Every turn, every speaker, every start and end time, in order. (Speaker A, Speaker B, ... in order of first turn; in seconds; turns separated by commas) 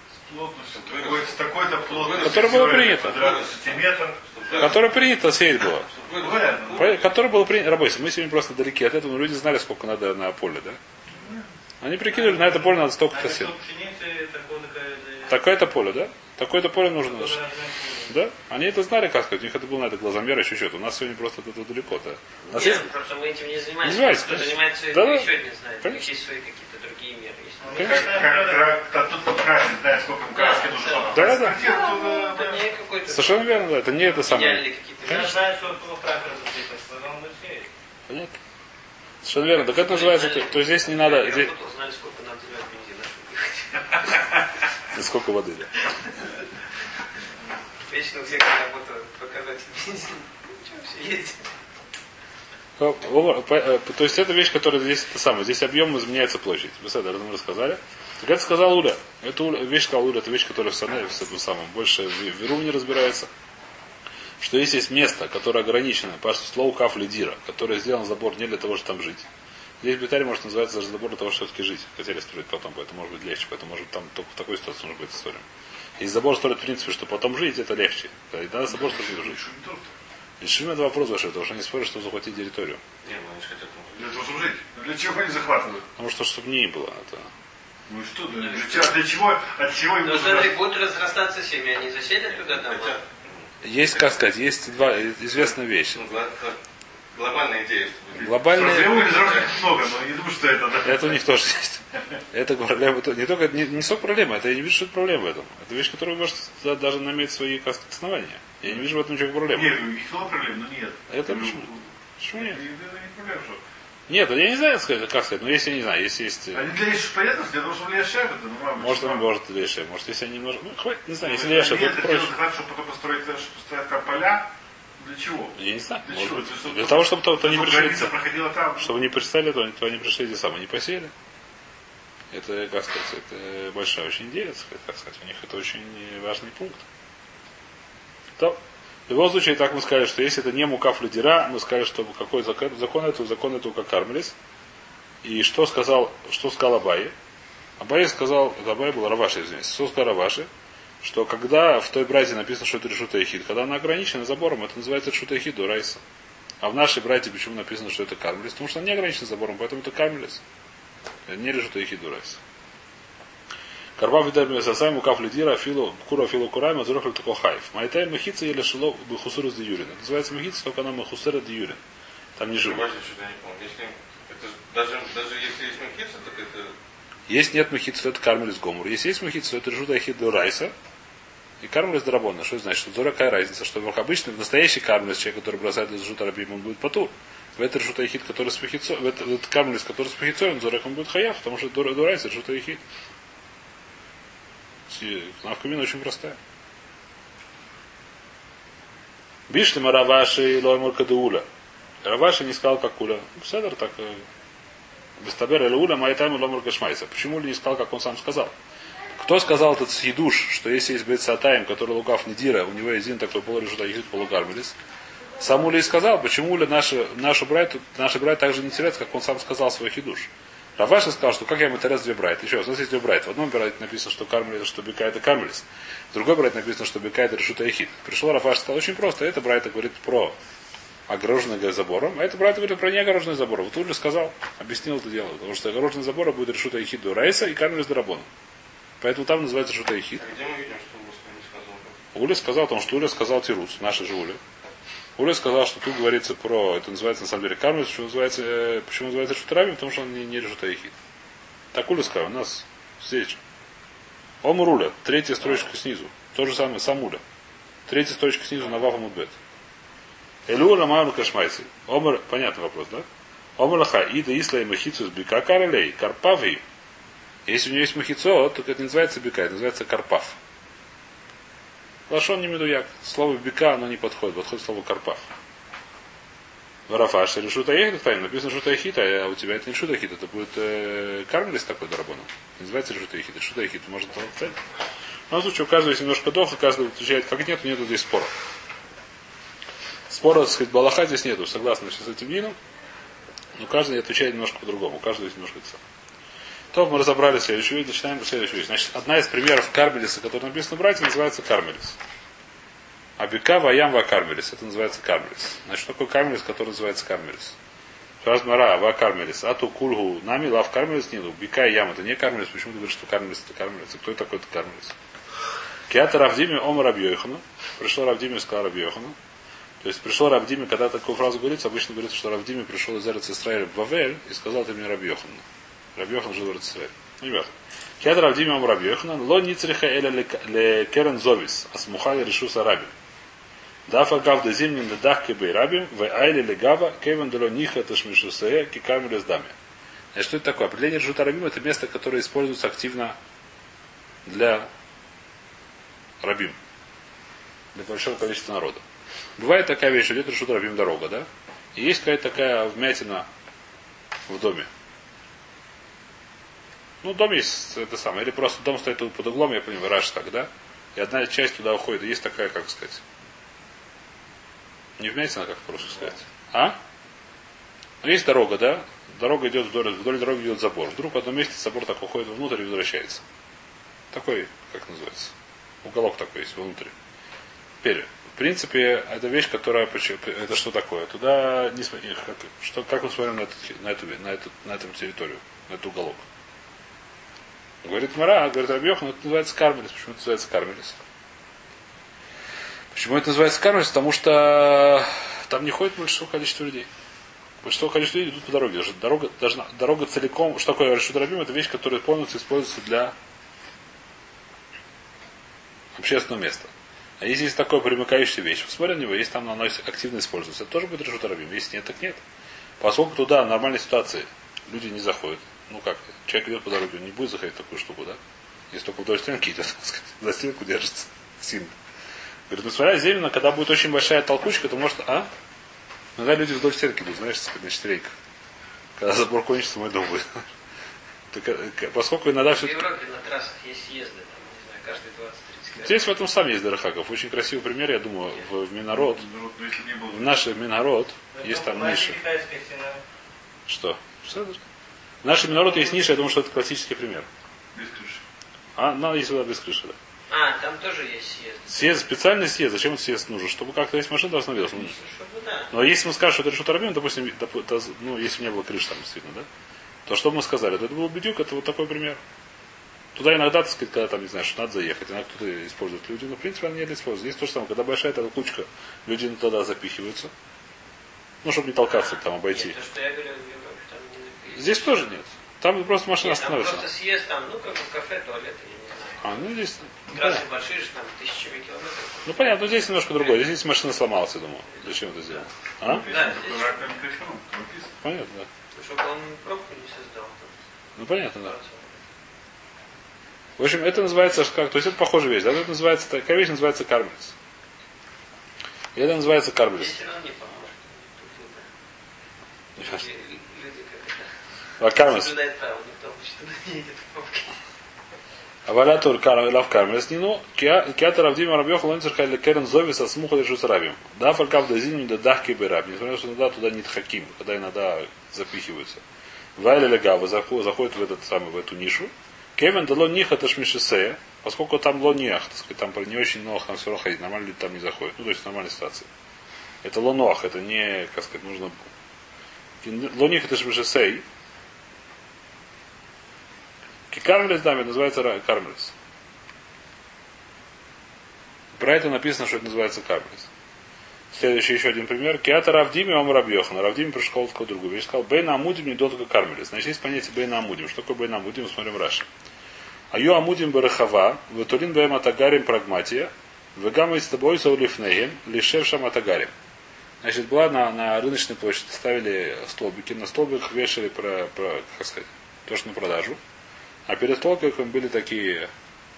Speaker A: 0.2-4.7, Speaker B: 0.7-5.0, Speaker C: 2.1-3.3, Speaker C: 4.6-5.9, Speaker B: 5.8-7.1, Speaker A: 6.1-6.9, Speaker C: 6.8-10.8, Speaker A: 11.1-11.4, Speaker C: 11.8-13.5, Speaker D: 12.1-15.4, Speaker C: 15.3-17.4, Speaker D: 17.0-18.1, Speaker C: 18.1-22.9, Speaker E: 22.5-28.1, Speaker C: 23.8-25.3, Speaker C: 25.8-26.1, Speaker D: 27.6-28.7, Speaker C: 27.8-28.1, Speaker A: 27.8-32.6, Speaker E: 30.3-35.4, Speaker C: 31.1-31.6, Speaker C: 33.1-34.6, Speaker D: 35.0-37.7, Speaker C: 38.1-38.4, Speaker C: 39.2-41.5, Speaker E: 39.6-44.5, Speaker C: 44.9-45.9, Speaker E: 47.9-51.5, Speaker C: 52.8-63.3, Speaker C: 64.4-69.3, Speaker C: 69.8-75.4, Speaker C: 76.0-79.4, Speaker A: 78.7-80.0, Speaker C: 80.4-82.8, Speaker B: 83.0-84.0, Speaker A: 84.0-85.9, Speaker C: 86.0-87.3, Speaker A: 87.9-90.6, Speaker E: 88.4-88.9, Speaker E: 90.0-93.0, Speaker B: 92.5-94.0, Speaker C: 93.6-96.0, Speaker B: 96.0-96.6, Speaker B: 97.1-99.5, Speaker C: 98.2-99.2, Speaker A: 98.4-101.2, Speaker C: 100.8-109.8, Speaker A: 109.5-113.6, Speaker C: 111.1-112.6, Speaker C: 114.1-116.7, Speaker A: 116.5-119.3, Speaker C: 118.8-122.3, Speaker A: 121.2-128.9, Speaker C: 125.6-128.1, Speaker C: 128.8-131.1, Speaker C: 132.3-136.8, Speaker C: 138.4-144.4, Speaker C: 145.2-147.1, Speaker C: 147.8-150.5, Speaker C: 151.0-156.0, Speaker C: 156.6-160.4, Speaker C: 161.3-162.4, Speaker C: 164.0-171.8, Speaker C: 172.4-172.9, Speaker B: 172.6-176.8, Speaker C: 177.3-180.7, Speaker C: 181.6-192.8, Speaker C: 194.9-196.4, Speaker C: 199.5-201.5, Speaker C: 202.0-204.2, Speaker C: 205.2-208.5, Speaker C: 209.2-214.8, Speaker C: 215.4-230.4, Speaker C: 231.1-238.3, Speaker C: 239.0-240.2, Speaker B: 240.2-242.0, Speaker C: 242.1-244.4, Speaker C: 245.2-250.9, Speaker C: 251.7-253.4, Speaker C: 254.4-257.2, Speaker C: 257.9-259.4, Speaker C: 260.5-263.1, Speaker C: 263.6-266.6, Speaker C: 267.5-270.4, Speaker C: 272.1-275.3, Speaker C: 276.9-284.6, Speaker C: 285.3-288.3, Speaker C: 290.1-292.6, Speaker C: 293.6-295.8, Speaker C: 296.7-302.0, Speaker C: 303.2-307.6, Speaker C: 308.2-314.9, Speaker C: 315.9-319.2, Speaker C: 319.8-325.4, Speaker C: 326.0-332.9, Speaker C: 333.9-339.5, Speaker C: 340.1-343.2, Speaker C: 344.2-344.7, Speaker C: 346.2-346.6, Speaker C: 347.7-348.8, Speaker C: 349.4-353.3, Speaker C: 354.3-354.7, Speaker C: 357.0-363.0, Speaker C: 365.0-366.8, Speaker C: 368.0-373.2, Speaker C: 374.1-376.9, Speaker C: 377.8-386.2, Speaker C: 387.8-391.0, Speaker C: 392.9-396.9, Speaker C: 397.6-403.1, Speaker C: 406.0-412.2, Speaker C: 412.8-418.2, Speaker C: 418.7-421.7, Speaker C: 422.5-425.3, Speaker C: 426.2-428.1, Speaker C: 429.0-430.5, Speaker C: 431.3-432.8, Speaker E: 432.6-436.1, Speaker C: 435.8-439.2, Speaker A: 438.9-440.3, Speaker C: 440.1-442.2, Speaker D: 441.3-443.0, Speaker C: 443.7-444.6, Speaker C: 445.2-447.3, Speaker A: 447.7-448.2, Speaker C: 448.8-450.0, Speaker E: 450.3-452.0, Speaker C: 451.7-455.0, Speaker E: 454.7-455.7, Speaker C: 455.7-459.5, Speaker C: 460.1-462.2, Speaker C: 463.1-470.3, Speaker C: 471.4-472.8, Speaker E: 471.9-475.1, Speaker C: 474.5-476.9, Speaker E: 476.2-479.5, Speaker C: 479.2-480.4, Speaker E: 480.0-483.5, Speaker C: 482.2-486.1, Speaker E: 484.8-485.4, Speaker A: 485.8-487.9, Speaker E: 486.0-486.7, Speaker C: 488.0-488.5, Speaker E: 488.8-490.6, Speaker C: 491.0-491.5, Speaker E: 491.3-492.0, Speaker C: 493.6-497.3, Speaker C: 498.9-500.0, Speaker E: 499.8-501.7, Speaker C: 502.8-503.0, Speaker E: 502.8-504.3, Speaker C: 504.8-505.3, Speaker E: 504.9-507.6, Speaker C: 508.7-519.0, Speaker C: 519.6-529.1, Speaker C: 529.8-531.8, Speaker C: 532.8-534.2, Speaker C: 537.1-538.9, Speaker C: 541.8-543.5, Speaker C: 544.3-552.3, Speaker C: 553.1-559.5, Speaker C: 560.2-566.4, Speaker C: 567.1-568.7